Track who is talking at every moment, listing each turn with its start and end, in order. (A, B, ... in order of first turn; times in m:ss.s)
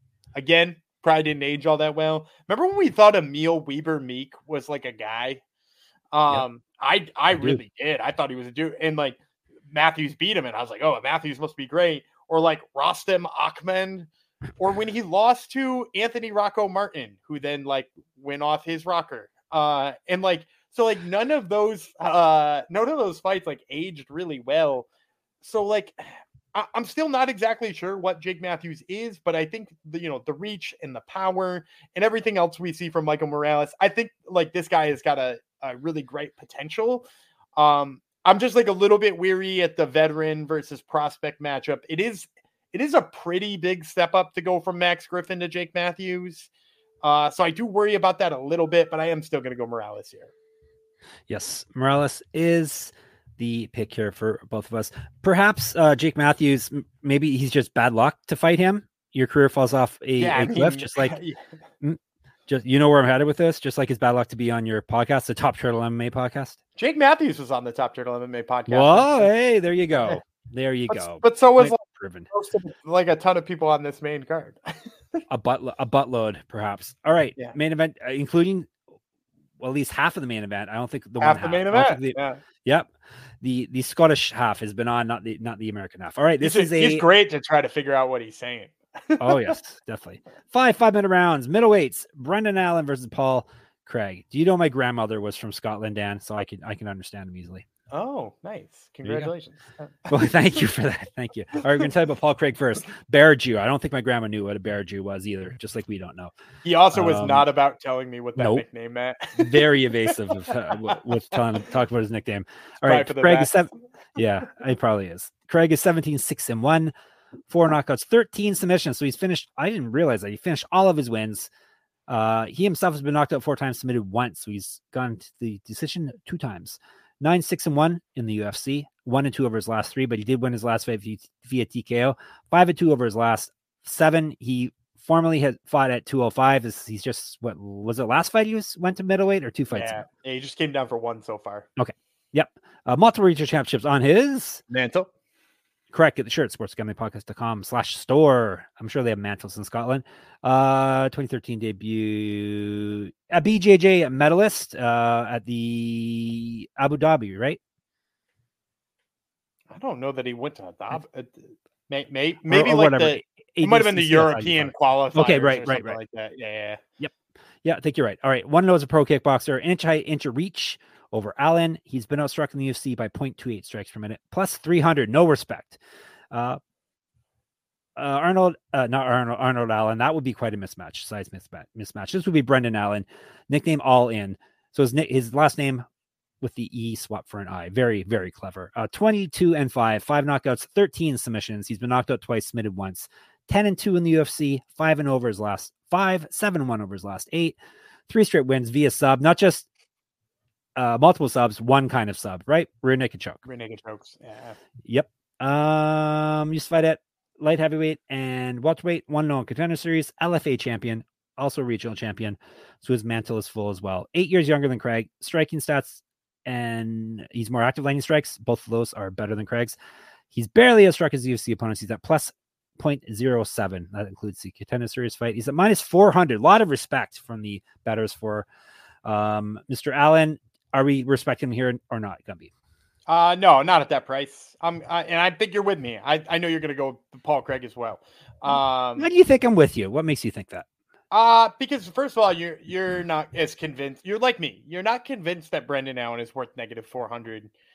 0:00.4-0:05.4 A
0:06.1-0:09.2 A
0:07.3-0:07.6 B
0:09.7-0:24.9 A
0:25.4-0:26.0 A
0:26.5-0:46.5 A
0:47.0-0:50.3 A
0:51.3-1:01.1 B
1:00.2-1:01.4 A
1:01.8-1:06.6 B
1:06.8-1:09.3 A
1:08.7-1:12.3 B
1:10.9-1:11.8 A
1:12.3-1:14.6 A
1:15.3-1:18.7 B
1:19.6-1:22.9 B
1:21.2-1:22.4 A
1:23.4-1:27.0 B
1:26.4-1:29.6 A
1:29.2-1:37.6 B
1:37.9-1:40.1 A
1:39.0-1:39.3 B
1:40.1-1:46.3 B
1:46.6-1:50.5 A
1:46.9-1:47.4 B
1:48.4-1:48.6 B
1:49.4-1:56.9 B
1:52.8-1:53.5 A
1:57.5-2:01.5 B
2:02.1-2:20.0 B
2:19.7-2:21.7 A
2:21.8-2:24.6 B
2:24.7-2:25.1 A
2:25.9-2:37.6 B
2:39.7-2:46.8 A
2:42.5-2:46.0 B
2:47.0-2:55.8 B
2:56.3-2:56.6 B
2:58.0-3:05.8 B
3:06.4-3:19.6 B
3:20.8-3:23.4 B
3:23.4-3:24.6 A
3:24.8-3:39.8 B
3:40.3-3:48.5 B
3:49.0-3:52.5 B
3:53.1-3:59.1 A
3:59.0-4:00.6 B
4:01.1-4:07.5 A